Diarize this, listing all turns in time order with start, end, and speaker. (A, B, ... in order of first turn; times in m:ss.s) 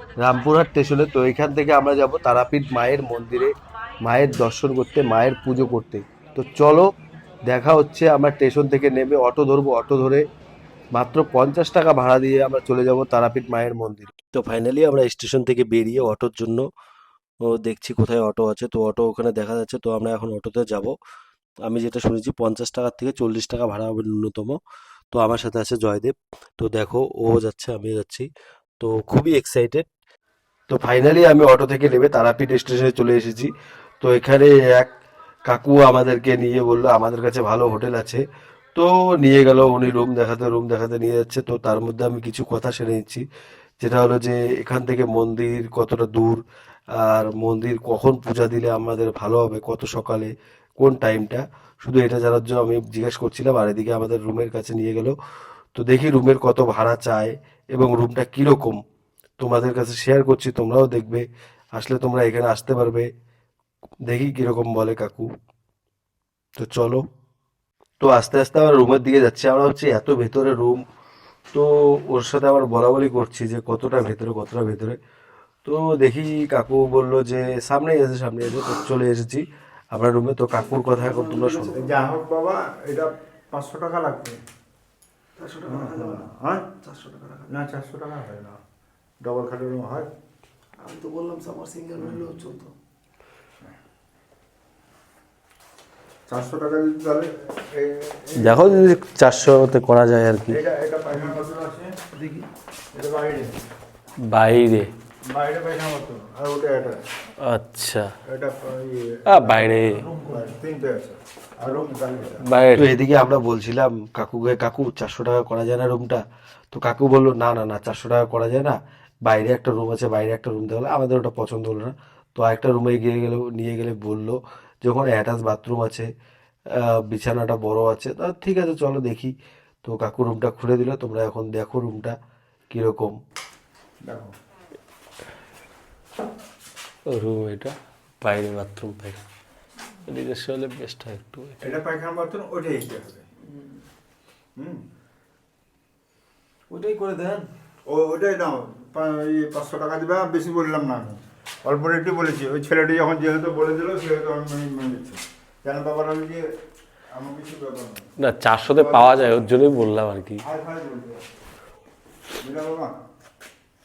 0:00.2-0:03.5 A
0:04.0-0:06.9 A
0:07.5-0:10.2 A
0:11.0-0:16.6 A
0:17.5-0:20.9 A
0:21.7-0:24.6 A
0:25.1-0:28.3 A
0:28.8-0:29.9 A
0:30.7-0:34.9 A
0:35.5-0:38.2 A
0:38.8-0:43.2 A
0:43.8-0:46.4 A
0:47.0-0:55.2 A
0:55.8-0:58.8 A
0:59.4-1:01.2 A
1:01.8-1:03.1 A
1:04.1-1:05.3 A
1:06.6-1:07.0 A
1:08.0-1:10.8 A
1:11.5-1:15.0 A
1:15.6-1:19.4 A
1:19.9-1:21.9 A
1:20.8-1:21.8 B
1:21.7-1:24.4 C
1:25.4-1:26.3 B
1:25.7-1:26.7 C
1:26.8-1:27.5 B
1:27.5-1:28.6 C
1:29.2-1:30.1 C
1:30.8-1:32.7 B
1:36.3-1:38.8 C
1:38.4-1:40.6 A
1:40.5-1:42.0 C
1:42.1-1:42.5 B
1:42.9-1:43.5 C
1:44.4-1:44.7 A
1:45.3-1:47.0 C
1:47.4-1:48.1 D
1:48.3-1:52.4 C
1:49.3-1:50.1 D
1:52.4-1:52.9 D
1:52.7-2:06.1 A
2:06.8-2:09.3 A
2:09.8-2:12.2 A
2:12.7-2:13.2 A
2:14.0-2:14.3 C
2:17.2-2:17.7 D
2:18.3-2:19.2 A
2:20.1-2:21.6 D
2:20.3-2:21.4 A
2:21.6-2:23.3 C
2:24.6-2:24.8 C
2:26.7-2:27.5 B
2:27.9-2:36.5 C
2:37.1-2:38.1 C
2:38.2-2:40.4 D
2:38.7-2:39.4 C
2:40.4-2:41.2 C
2:42.4-2:43.0 C